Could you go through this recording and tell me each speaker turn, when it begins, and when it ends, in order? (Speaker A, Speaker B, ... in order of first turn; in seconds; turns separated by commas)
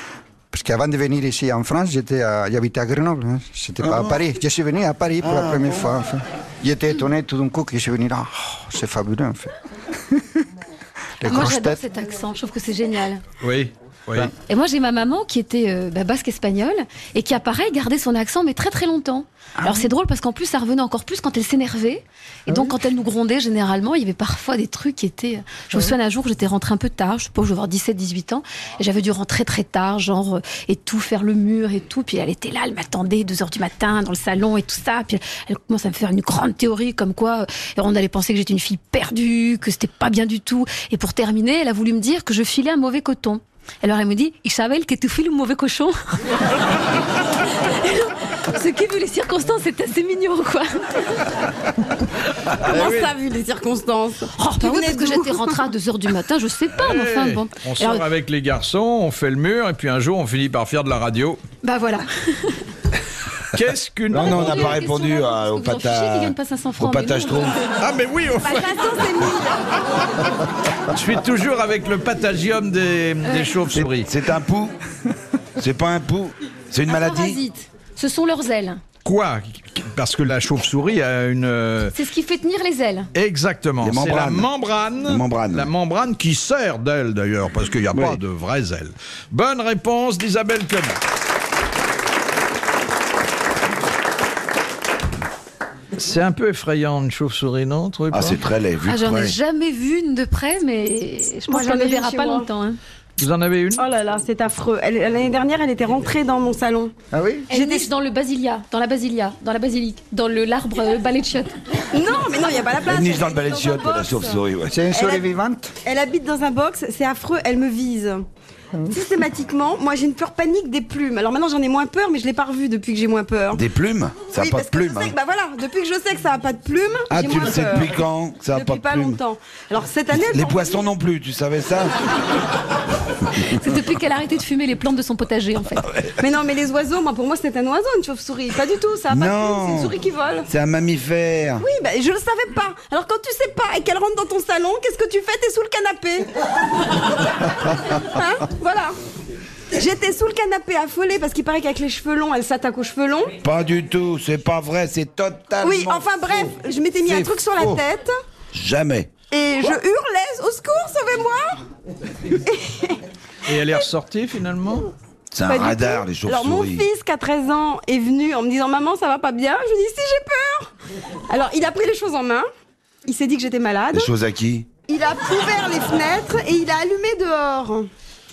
Speaker A: 0.5-10.4, Speaker B: 5.2-5.8, Speaker A: 11.2-11.8, Speaker C: 11.2-13.2, Speaker D: 13.4-14.3, Speaker C: 14.4-46.6, Speaker C: 47.4-51.3, Speaker D: 52.5-53.1, Speaker E: 52.6-55.6, Speaker C: 54.4-58.0, Speaker D: 56.7-61.4, Speaker C: 61.6-62.7, Speaker D: 63.5-64.8, Speaker B: 64.1-67.6, Speaker C: 64.1-67.8, Speaker D: 67.8-69.0, Speaker E: 68.4-69.8, Speaker D: 70.9-74.1, Speaker B: 73.7-74.8, Speaker B: 75.6-77.4, Speaker C: 76.9-78.8, Speaker D: 79.0-82.0, Speaker C: 81.9-83.1, Speaker D: 83.1-91.0, Speaker B: 83.8-84.5, Speaker B: 85.0-85.7, Speaker B: 87.9-88.2, Speaker D: 96.0-98.4, Speaker B: 98.1-99.4, Speaker C: 98.9-102.8, Speaker E: 101.5-102.5, Speaker D: 103.2-103.8, Speaker E: 103.8-106.9, Speaker A: 107.1-107.5, Speaker C: 107.5-111.9, Speaker E: 107.5-107.9, Speaker E: 111.9-115.2, Speaker B: 112.9-114.8, Speaker A: 114.7-115.8, Speaker E: 115.8-118.3, Speaker E: 118.9-123.6, Speaker B: 123.5-125.2, Speaker E: 124.4-128.0, Speaker B: 127.1-129.2, Speaker E: 128.5-130.9, Speaker B: 130.1-132.0, Speaker C: 133.3-135.9, Speaker B: 135.9-136.1, Speaker E: 136.2-140.5, Speaker B: 139.1-140.0, Speaker B: 140.5-141.7, Speaker E: 141.6-146.3, Speaker E: 147.9-149.0, Speaker E: 149.8-153.3, Speaker B: 153.4-156.5, Speaker E: 155.6-158.2, Speaker B: 157.1-157.8, Speaker B: 158.5-159.1, Speaker E: 159.3-161.7, Speaker E: 162.3-163.0, Speaker D: 163.5-164.9, Speaker B: 165.3-166.9, Speaker E: 165.5-170.7, Speaker E: 171.3-172.5, Speaker E: 173.1-174.1, Speaker B: 173.9-174.7, Speaker E: 174.9-177.9